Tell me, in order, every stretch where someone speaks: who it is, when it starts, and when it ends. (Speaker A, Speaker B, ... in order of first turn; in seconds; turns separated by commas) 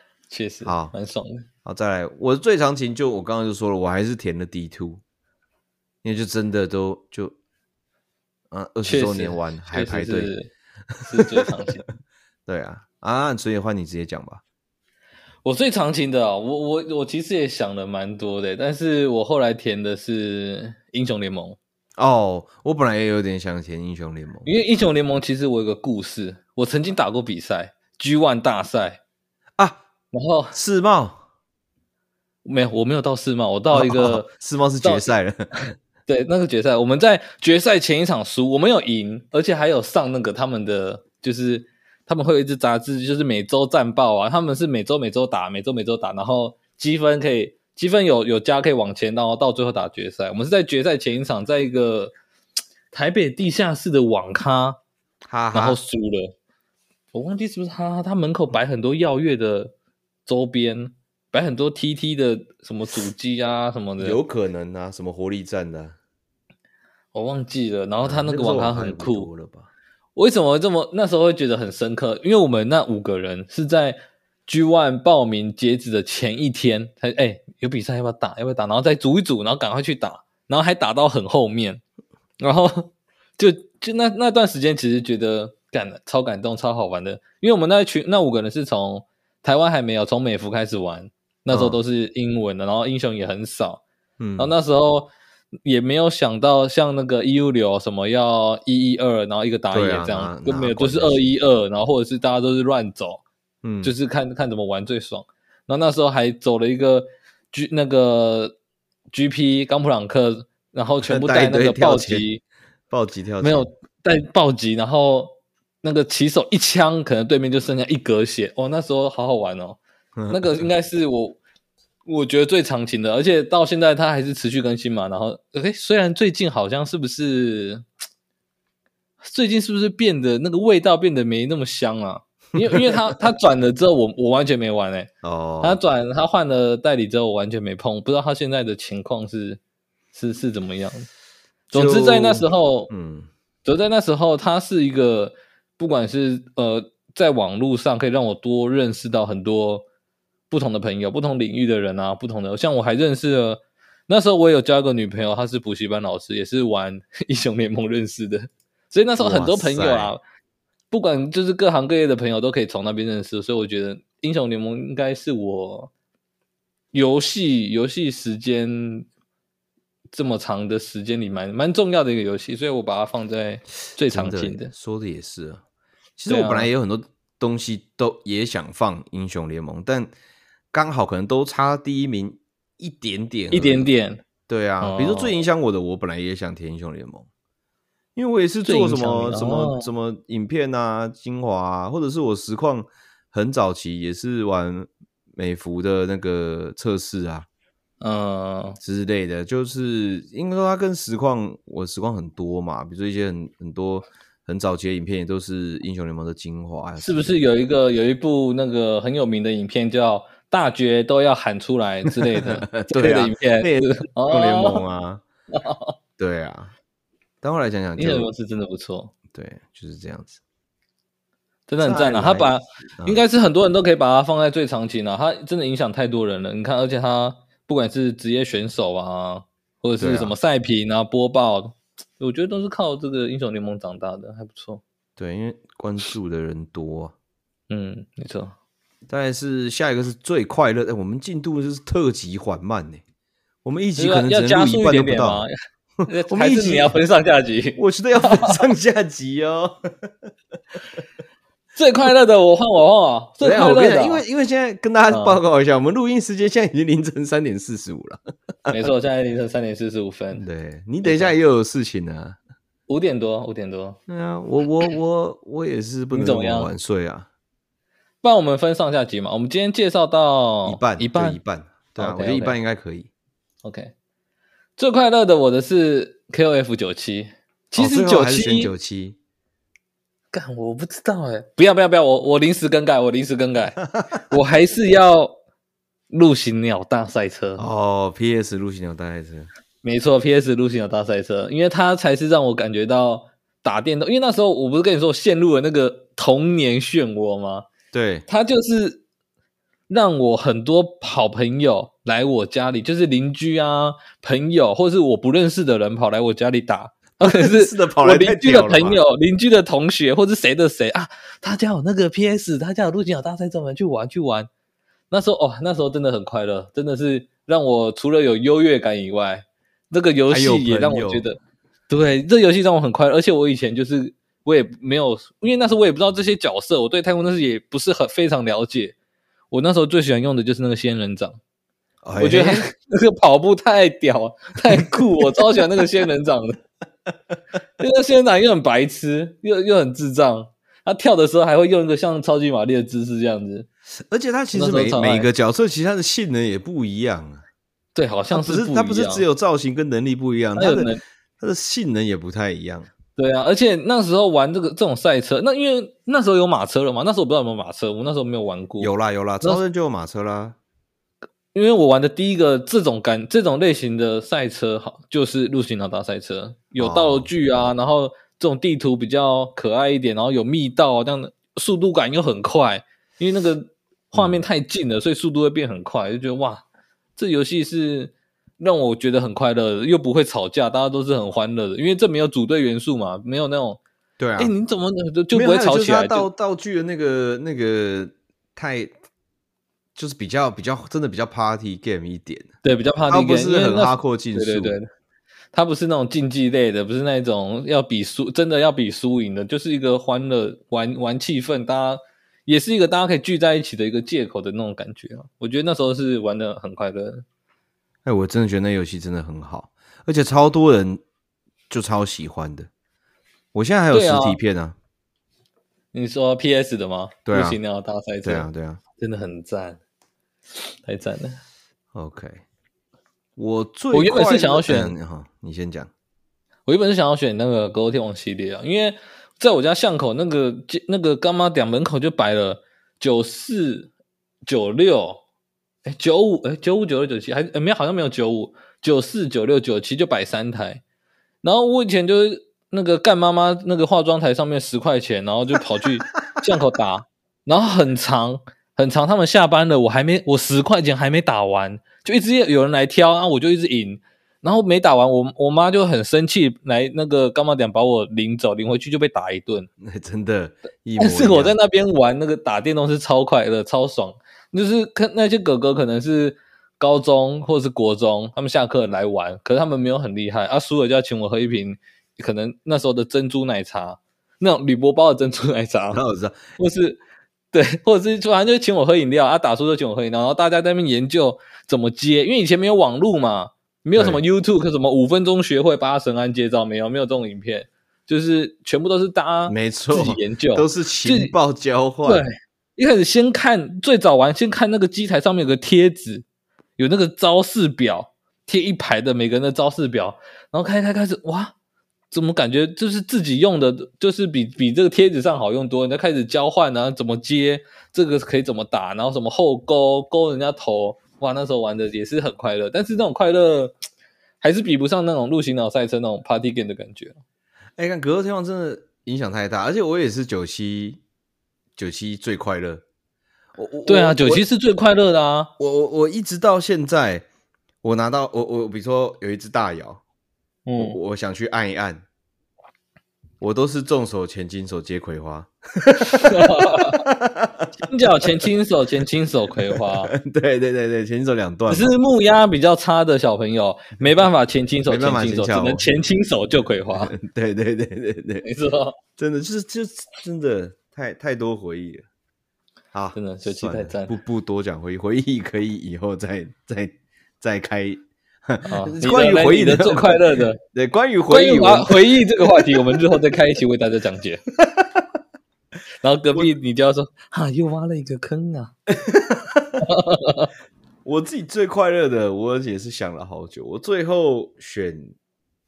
Speaker A: 0.3-1.4, Speaker B: 0.6-0.9, Speaker B: 1.6-5.0, Speaker B: 6.0-7.3, Speaker B: 8.5-10.3, Speaker A: 8.8-10.5, Speaker B: 11.0-11.7, Speaker A: 11.1-11.8, Speaker B: 12.4-14.4, Speaker A: 15.4-21.6, Speaker B: 22.0-24.5, Speaker A: 24.4-29.0, Speaker A: 30.1-30.6, Speaker B: 30.5-31.2, Speaker A: 32.4-34.3, Speaker B: 33.7-35.7, Speaker A: 34.8-35.1, Speaker A: 36.1-52.1, Speaker A: 52.9-54.8, Speaker B: 55.3-55.8, Speaker A: 55.5-56.3, Speaker A: 57.1-59.7, Speaker A: 60.2-64.2, Speaker B: 64.0-66.0, Speaker A: 67.1-69.3, Speaker B: 68.0-69.7, Speaker A: 70.2-81.8, Speaker A: 82.4-93.8, Speaker B: 91.5-91.8, Speaker B: 94.2-94.5, Speaker A: 94.4-95.1, Speaker A: 95.6-103.2, Speaker B: 99.7-101.3, Speaker B: 103.6-103.9, Speaker A: 103.8-108.5, Speaker A: 109.1-112.4, Speaker B: 111.0-112.3, Speaker B: 112.9-113.7, Speaker A: 113.4-119.8, Speaker B: 120.2-120.7, Speaker A: 120.3-121.4, Speaker A: 122.0-127.8, Speaker A: 129.2-135.1, Speaker B: 132.6-133.0, Speaker B: 135.2-135.8, Speaker A: 135.6-139.6, Speaker A: 140.1-141.1, Speaker A: 141.7-142.9, Speaker B: 141.7-143.3, Speaker A: 143.6-149.8, Speaker A: 150.5-160.2, Speaker B: 159.2-160.1, Speaker A: 160.9-165.9, Speaker A: 166.9-169.1, Speaker A: 170.1-174.7, Speaker B: 174.1-175.6, Speaker B: 176.2-180.1, Speaker A: 176.3-176.7, Speaker B: 180.7-183.9, Speaker A: 183.5-184.2, Speaker B: 184.5-187.3, Speaker A: 184.8-185.3, Speaker B: 188.2-197.5, Speaker A: 188.6-189.9, Speaker A: 198.0-198.8, Speaker B: 198.8-207.4, Speaker A: 207.0-214.8, Speaker B: 212.1-215.2, Speaker A: 215.5-215.9, Speaker B: 216.2-216.7, Speaker B: 217.4-218.3, Speaker A: 218.0-219.1, Speaker B: 219.3-220.4, Speaker A: 221.7-234.8, Speaker B: 221.8-223.2, Speaker B: 230.0-230.3, Speaker B: 235.2-237.1, Speaker A: 237.7-238.5, Speaker B: 239.1-243.0, Speaker B: 243.6-245.4, Speaker A: 243.9-245.5, Speaker B: 246.0-246.9, Speaker A: 246.1-248.6, Speaker B: 247.8-250.1, Speaker A: 251.8-254.2, Speaker B: 253.4-258.9, Speaker A: 255.1-255.4, Speaker A: 258.7-260.4, Speaker B: 260.3-262.4, Speaker A: 261.0-261.3, Speaker A: 262.9-264.0, Speaker B: 264.1-267.3, Speaker A: 266.1-266.7, Speaker A: 268.2-271.4, Speaker B: 270.6-273.1, Speaker A: 272.0-272.6, Speaker A: 273.6-273.9, Speaker A: 274.8-278.7, Speaker B: 277.8-279.2, Speaker A: 280.3-285.3, Speaker A: 286.1-287.6, Speaker B: 287.6-289.5, Speaker A: 289.8-297.7, Speaker B: 297.9-298.2, Speaker A: 298.3-299.0, Speaker A: 299.9-314.5, Speaker B: 307.2-309.0, Speaker A: 315.1-321.4, Speaker B: 320.3-321.2, Speaker A: 321.9-328.9, Speaker A: 329.5-331.4, Speaker B: 332.0-332.6, Speaker A: 332.2-336.6, Speaker B: 334.7-335.0, Speaker A: 337.8-343.7, Speaker B: 344.0-347.4, Speaker A: 344.5-345.3, Speaker A: 347.9-349.2, Speaker B: 348.3-352.9, Speaker A: 350.6-351.0, Speaker A: 353.1-359.6, Speaker B: 358.8-360.6, Speaker A: 361.5-376.6, Speaker B: 366.8-367.3, Speaker B: 374.1-374.4, Speaker A: 377.1-383.8, Speaker B: 384.2-384.5, Speaker A: 384.4-386.3, Speaker B: 385.3-388.9, Speaker B: 389.9-392.5, Speaker A: 392.6-394.9, Speaker B: 393.1-394.7, Speaker A: 395.5-407.2, Speaker B: 408.0-411.0, Speaker B: 411.7-412.7, Speaker B: 413.5-414.8, Speaker A: 413.9-414.4, Speaker A: 415.9-418.5, Speaker B: 417.3-417.6, Speaker B: 418.2-418.8, Speaker A: 419.0-419.8, Speaker A: 420.7-421.4, Speaker B: 421.9-422.4, Speaker B: 423.4-425.9, Speaker A: 423.9-424.9, Speaker A: 426.6-433.9, Speaker A: 434.4-435.2, Speaker A: 435.9-440.8, Speaker A: 441.4-459.7, Speaker B: 459.8-461.5, Speaker A: 461.0-476.0, Speaker B: 475.9-476.4, Speaker A: 476.6-477.0, Speaker A: 477.5-491.3, Speaker B: 483.9-484.2, Speaker B: 489.5-492.2, Speaker A: 492.0-496.2, Speaker A: 496.8-501.5, Speaker A: 502.1-513.7, Speaker A: 514.4-517.2, Speaker B: 517.8-521.0, Speaker B: 521.8-522.8, Speaker B: 523.5-524.4, Speaker A: 523.9-525.5, Speaker B: 525.6-527.2, Speaker B: 527.8-530.0, Speaker A: 530.6-531.0, Speaker B: 530.8-532.0, Speaker B: 533.4-537.7, Speaker A: 536.0-537.0, Speaker A: 537.8-540.1, Speaker B: 539.7-541.9, Speaker A: 541.7-547.1, Speaker B: 544.9-545.9, Speaker B: 546.9-548.4, Speaker A: 548.4-549.0, Speaker B: 549.2-552.0, Speaker B: 552.9-563.1, Speaker A: 553.1-554.1, Speaker A: 558.6-560.6, Speaker A: 561.3-564.4, Speaker A: 566.0-568.7, Speaker B: 568.9-569.9, Speaker A: 569.8-570.5, Speaker B: 571.0-575.1